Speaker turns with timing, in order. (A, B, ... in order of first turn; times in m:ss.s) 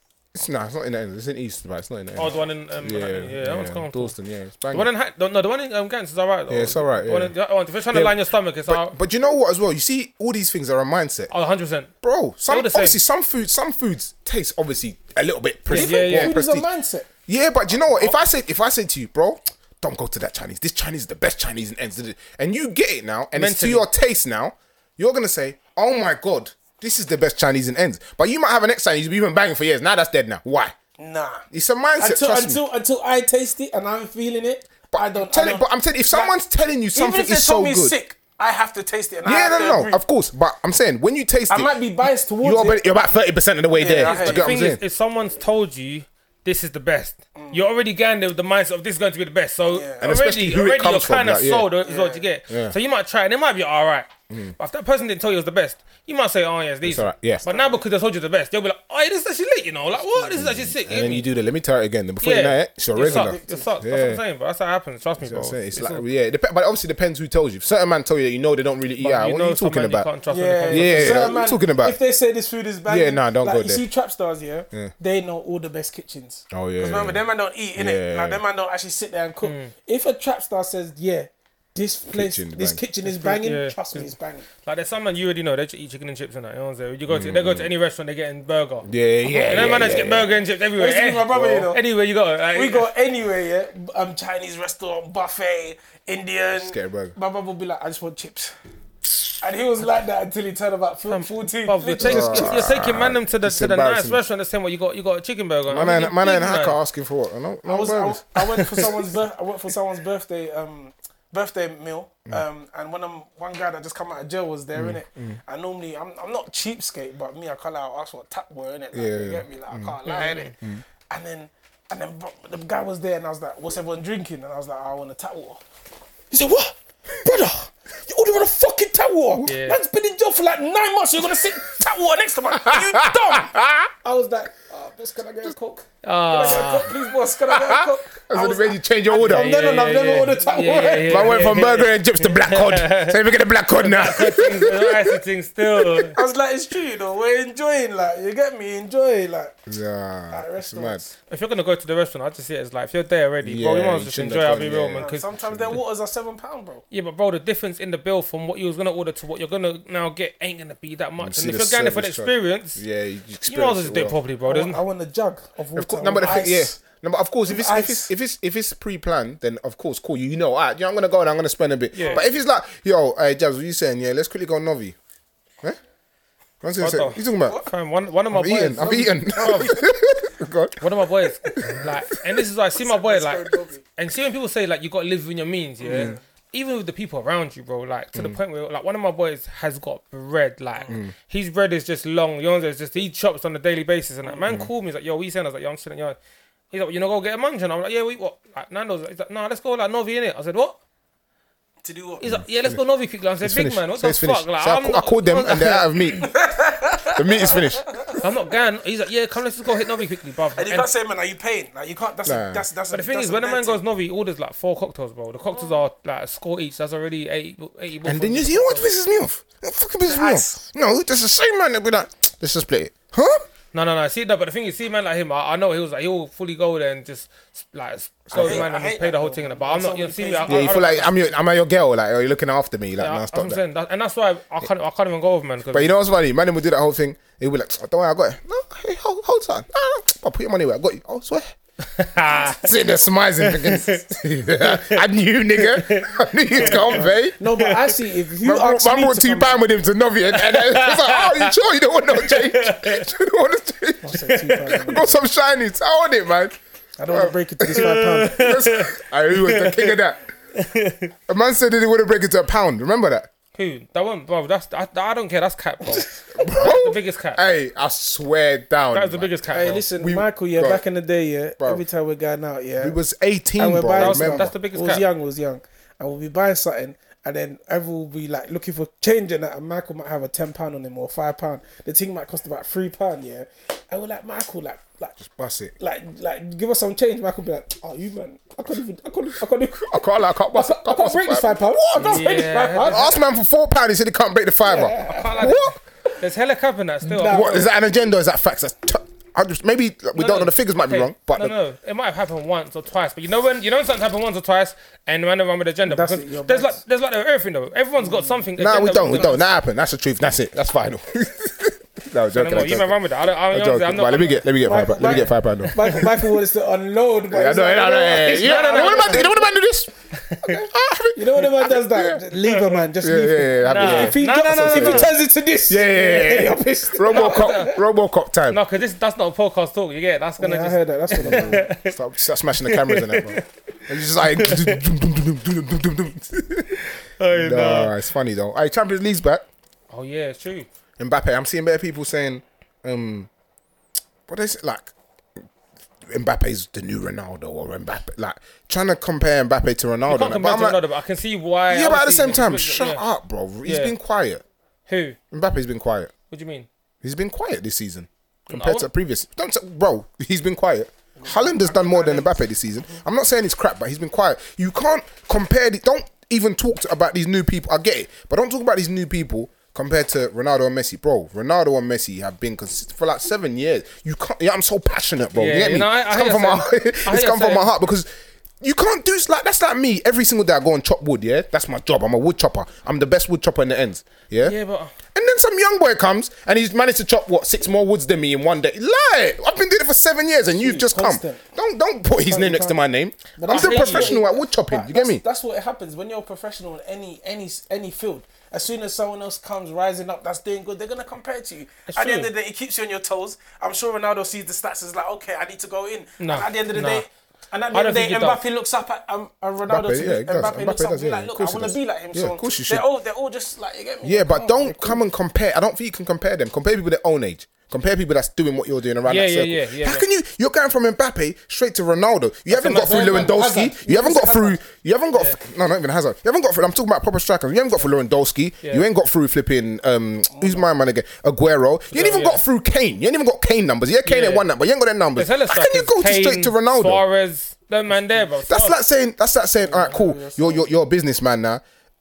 0:00.3-0:04.9 A
0:02.1-0:04.1 B
0:04.7-0:08.9 B
0:06.5-0:07.3 A
0:08.6-0:11.3 A
0:11.3-0:11.9 B
0:12.0-0:16.6 A
0:12.5-0:13.0 B
0:15.7-0:16.3 B
0:15.7-0:17.1 C
0:17.3-0:30.7 A
0:23.3-0:23.9 B
0:31.0-0:31.4 C
0:31.5-0:32.6 A
0:32.0-0:36.3 C
0:34.9-0:37.9 A
0:36.9-0:40.0 C
0:39.2-0:41.8 A
0:41.5-0:42.8 C
0:42.4-0:44.8 A
0:43.8-0:44.5 C
0:44.0-1:01.3 B
0:47.4-0:47.6 C
0:49.7-0:50.1 C
0:50.0-0:51.7 A
0:51.8-0:52.2 C
0:52.5-0:52.7 A
0:56.8-0:57.4 A
0:57.4-0:57.8 C
1:00.0-1:00.3 C
1:00.3-1:04.2 A
1:02.2-1:06.0 B
1:02.9-1:03.7 C
1:05.2-1:10.1 A
1:09.0-1:11.4 B
1:10.3-1:24.4 C
1:10.7-1:12.0 A
1:12.8-1:13.8 A
1:16.5-1:17.2 A
1:17.8-1:18.4 A
1:19.4-1:19.7 B
1:22.1-1:22.8 A
1:23.0-1:24.1 B
1:24.6-1:32.9 B
1:27.1-1:27.7 A
1:28.8-1:30.3 A
1:30.8-1:31.8 C
1:32.5-1:38.5 C
1:36.6-1:37.2 A
1:39.4-1:42.6 C
1:41.1-1:46.8 B
1:42.0-1:44.2 A
1:45.7-1:48.2 A
1:47.6-2:00.6 C
1:48.4-1:48.9 B
1:54.7-1:55.4 A
1:58.9-1:59.9 A
2:00.0-2:00.5 B
2:01.1-2:05.6 C
2:06.3-2:21.6 C
2:09.4-2:09.8 B
2:12.5-2:13.9 A
2:16.0-2:16.9 B
2:17.5-2:19.5 A
2:19.1-2:23.2 B
2:21.0-2:25.1 A
2:23.8-2:26.2 B
2:26.0-2:29.6 C
2:29.7-2:31.0 A
2:30.3-2:31.0 C
2:31.3-2:35.2 B
2:33.4-2:35.8 A
2:35.0-2:36.8 C
2:36.9-2:42.8 B
2:41.2-2:44.2 A
2:43.5-2:44.8 B
2:44.5-2:46.8 C
2:45.8-2:55.0 A
2:47.4-2:48.1 C
2:51.9-2:52.2 B
2:52.0-2:52.2 C
2:56.6-2:57.6 A
2:56.8-2:59.8 B
2:58.3-3:00.8 A
3:00.8-3:16.2 B
3:01.6-3:01.9 A
3:02.8-3:03.8 C
3:05.8-3:06.2 C
3:05.8-3:06.2 A
3:14.4-3:14.7 A
3:16.7-3:20.8 B
3:21.8-3:22.3 C
3:22.2-3:26.2 B
3:23.4-3:26.3 A
3:26.2-3:28.3 C
3:27.1-3:27.8 A
3:28.2-3:30.9 B
3:30.5-3:33.8 C
3:32.2-3:32.6 A
3:32.9-3:38.9 B
3:38.0-3:43.5 A
3:40.0-3:40.6 C
3:43.7-3:51.2 B
3:48.3-3:48.7 A
3:48.3-3:51.1 C
3:50.5-3:53.6 A
3:53.0-3:55.9 B
3:55.7-4:01.5 A
4:02.0-4:02.7 B
4:02.3-4:07.4 A
4:03.4-4:08.0 B
4:06.6-4:09.7 C
4:08.4-4:16.6 A
4:10.3-4:11.5 B
4:12.1-4:13.1 B
4:14.0-4:15.2 C
4:14.3-4:14.8 B
4:17.0-4:18.4 C
4:17.1-4:20.2 A
4:17.8-4:20.0 B
4:20.5-4:21.1 B
4:21.3-4:23.3 A
4:23.5-4:27.4 B
4:26.3-4:30.8 A
4:28.9-4:29.8 B
4:29.5-4:33.0 C
4:32.8-4:34.5 A
4:33.6-4:45.2 C
4:34.0-4:35.0 B
4:45.2-4:45.7 A
4:45.8-4:53.2 C
4:49.9-4:55.8 A
4:52.0-4:53.2 B
4:54.6-4:55.5 C
4:55.0-4:57.7 B
4:57.1-4:57.6 C
4:57.2-5:01.6 A
5:00.1-5:09.4 B
5:05.8-5:06.8 C
5:08.0-5:08.5 C
5:08.6-5:13.0 A
5:09.0-5:09.3 C
5:12.3-5:14.4 B
5:13.5-5:16.3 A
5:14.6-5:19.4 C
5:17.3-5:22.2 A
5:18.3-5:19.3 B
5:20.2-5:20.6 B
5:21.1-5:27.8 C
5:22.4-5:22.8 B
5:23.0-5:25.2 A
5:23.6-5:25.1 B
5:25.7-5:28.6 A
5:27.1-5:27.8 B
5:28.5-5:32.0 B
5:30.4-5:31.7 C
5:31.2-5:36.8 A
5:32.6-5:34.8 B
5:36.9-5:37.9 B
5:37.3-5:39.4 A
5:39.9-5:40.7 B
5:41.0-5:43.3 A
5:44.3-5:45.4 A
5:46.1-5:50.8 A
5:50.1-5:53.0 B
5:51.7-5:54.4 A
5:53.6-5:53.9 B
5:54.9-5:55.2 B
5:55.3-5:56.1 A
5:56.3-5:56.7 B
5:57.0-6:18.1 A
5:58.5-5:58.9 B
6:01.2-6:02.4 C
6:15.4-6:17.7 B
6:18.6-6:24.6 A
6:24.4-6:24.9 B
6:25.1-6:35.2 A
6:30.5-6:31.4 C
6:32.2-6:32.8 C
6:33.4-6:55.0 C
6:33.5-6:34.1 B
6:41.9-6:42.3 B
6:46.2-6:47.0 B
6:47.7-6:48.4 B
6:49.7-6:52.8 A
6:54.0-7:17.0 A
6:59.0-7:00.0 B
7:02.5-7:03.4 B
7:02.6-7:04.6 C
7:10.3-7:10.6 C
7:11.9-7:12.4 B
7:14.0-7:14.4 B
7:15.2-7:18.8 B
7:18.4-7:21.6 A
7:19.6-7:20.7 C